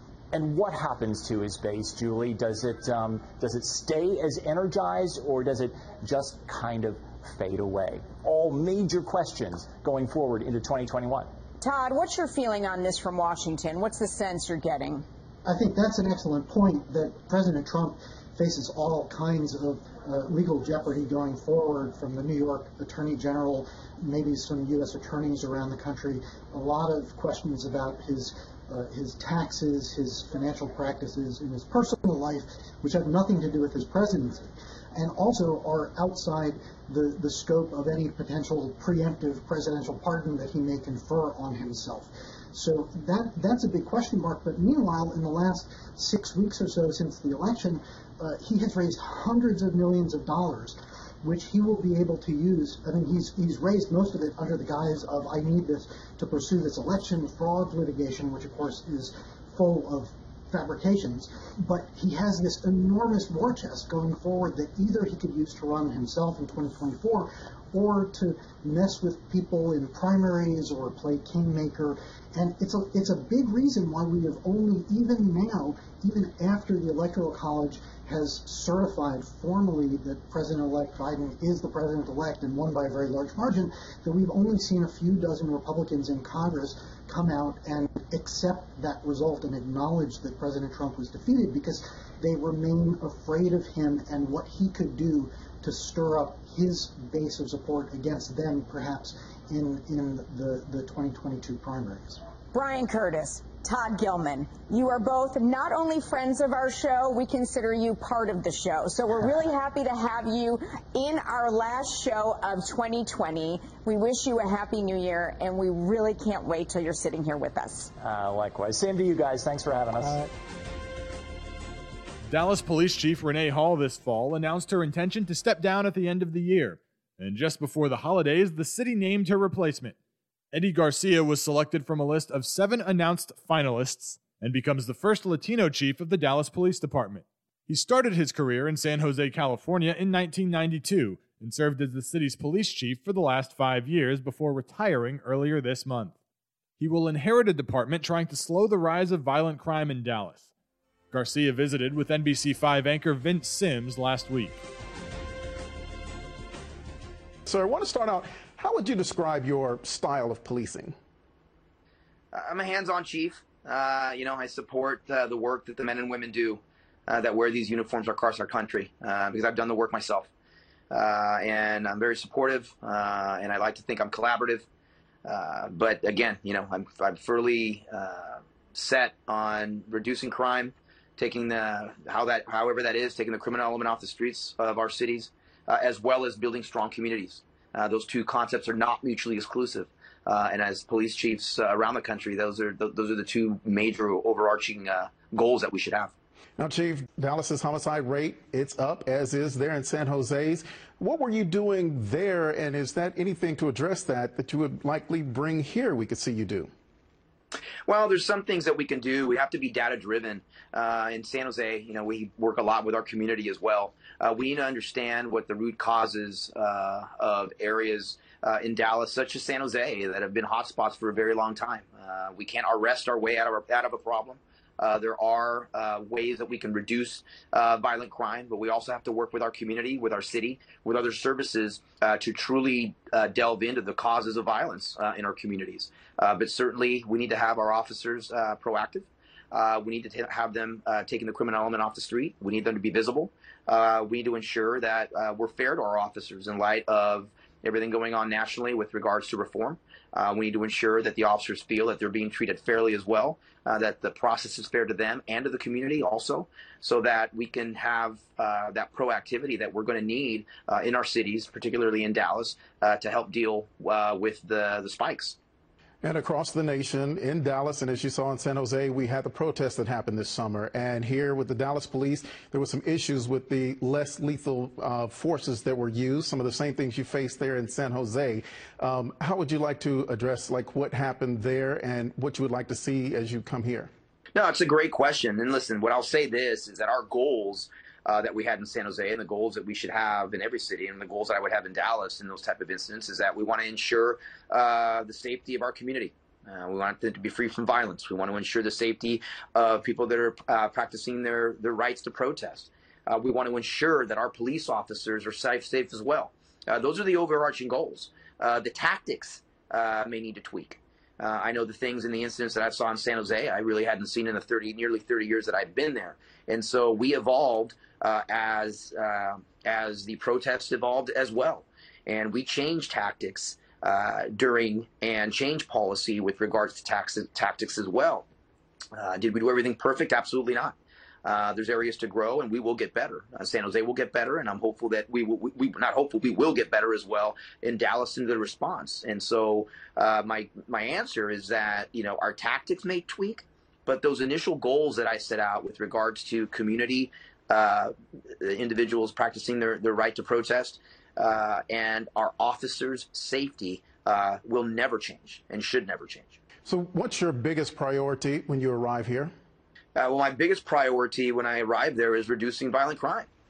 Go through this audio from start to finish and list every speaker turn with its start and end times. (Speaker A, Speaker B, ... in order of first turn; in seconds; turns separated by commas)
Speaker A: 0.3-11.3, Speaker B: 11.6-15.1, Speaker C: 15.4-102.2, Speaker B: 102.5-117.9, Speaker A: 118.0-120.2, Speaker D: 122.3-129.9, Speaker D: 130.5-146.1, Speaker D: 146.8-150.4, Speaker D: 151.1-154.6, Speaker E: 157.5-161.0, Speaker F: 162.3-170.3, Speaker F: 170.9-174.7, Speaker F: 175.3-196.1, Speaker E: 196.6-206.7, Speaker F: 207.9-265.4, Speaker E: 266.0-283.9, Speaker F: 284.4-328.2, Speaker F: 328.9-356.4, Speaker E: 356.6-359.3, Speaker F: 360.0-363.3